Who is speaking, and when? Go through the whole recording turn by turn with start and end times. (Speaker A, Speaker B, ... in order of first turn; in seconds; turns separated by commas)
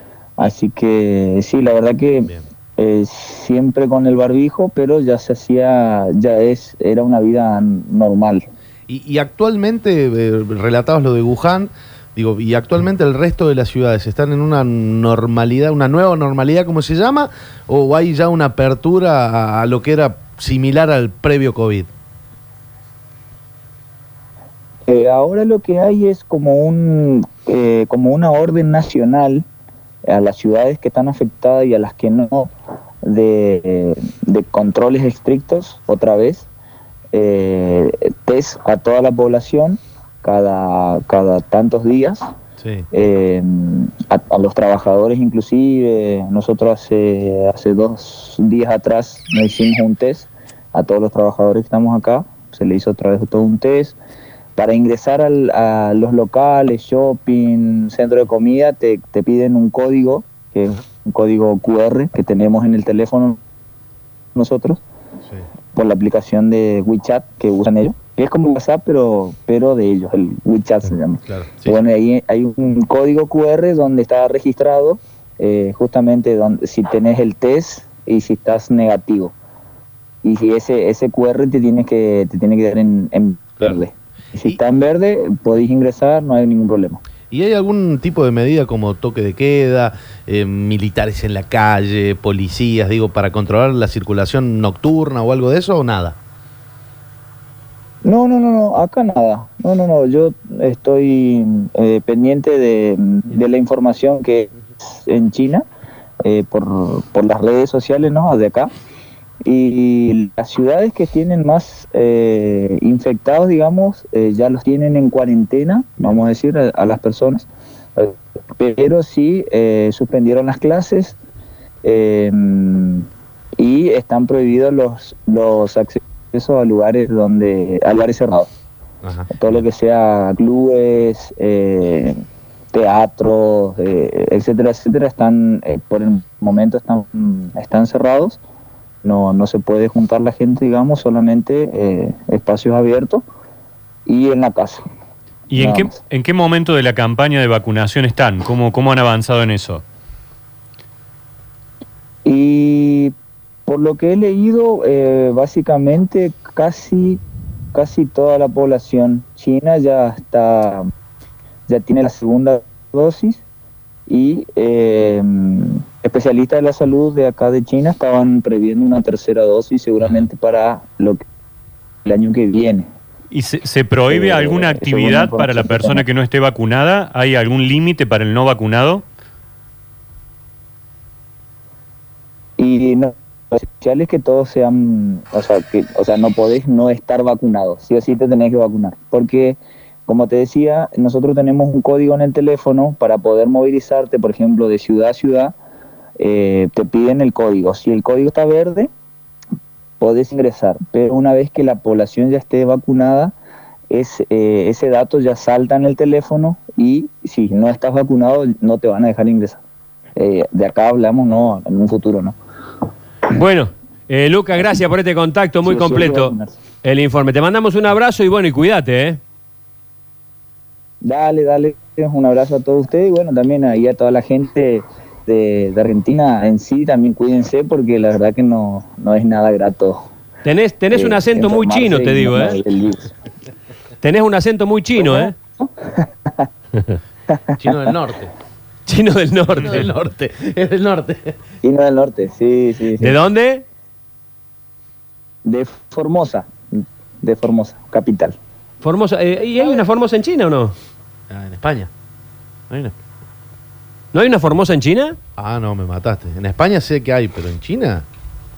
Speaker A: 0.4-8.4, Speaker B: 8.9-21.9, Speaker A: 24.9-29.4, Speaker A: 30.1-32.5, Speaker A: 33.0-36.5, Speaker A: 37.1-42.2, Speaker B: 42.6-42.9, Speaker A: 42.9-54.0, Speaker A: 54.5-63.4, Speaker A: 64.3-64.8, Speaker A: 65.7-79.3, Speaker B: 71.2-71.8, Speaker A: 80.2-87.0, Speaker B: 87.3-96.2, Speaker A: 98.0-105.6, Speaker A: 106.2-108.7, Speaker A: 109.4-121.2, Speaker A: 121.8-123.0, Speaker A: 123.6-128.5, Speaker B: 129.0-129.6, Speaker A: 129.3-132.2, Speaker A: 132.7-138.4, Speaker A: 139.0-143.2, Speaker A: 144.1-144.8, Speaker C: 145.5-149.8, Speaker A: 145.6-146.0, Speaker A: 152.2-153.1, Speaker A: 153.7-157.2, Speaker A: 157.7-160.9, Speaker A: 161.7-163.4, Speaker A: 164.1-171.2, Speaker A: 172.0-172.9, Speaker C: 173.3-179.0, Speaker A: 174.1-176.0, Speaker A: 182.6-195.5, Speaker A: 196.2-198.9, Speaker A: 200.0-203.3, Speaker A: 203.9-209.6, Speaker A: 210.2-212.4, Speaker D: 213.3-219.2, Speaker A: 215.6-216.5, Speaker A: 221.0-230.0, Speaker D: 230.4-232.6, Speaker A: 230.9-233.1, Speaker D: 234.0-235.3, Speaker A: 235.0-236.5, Speaker A: 237.3-237.9, Speaker B: 237.6-238.3, Speaker D: 238.8-239.9, Speaker B: 239.6-241.3, Speaker A: 241.6-243.2, Speaker D: 243.0-243.6, Speaker A: 245.4-248.3, Speaker D: 248.8-250.7, Speaker B: 251.3-251.9, Speaker B: 252.7-252.9, Speaker D: 254.1-255.2, Speaker B: 255.4-258.0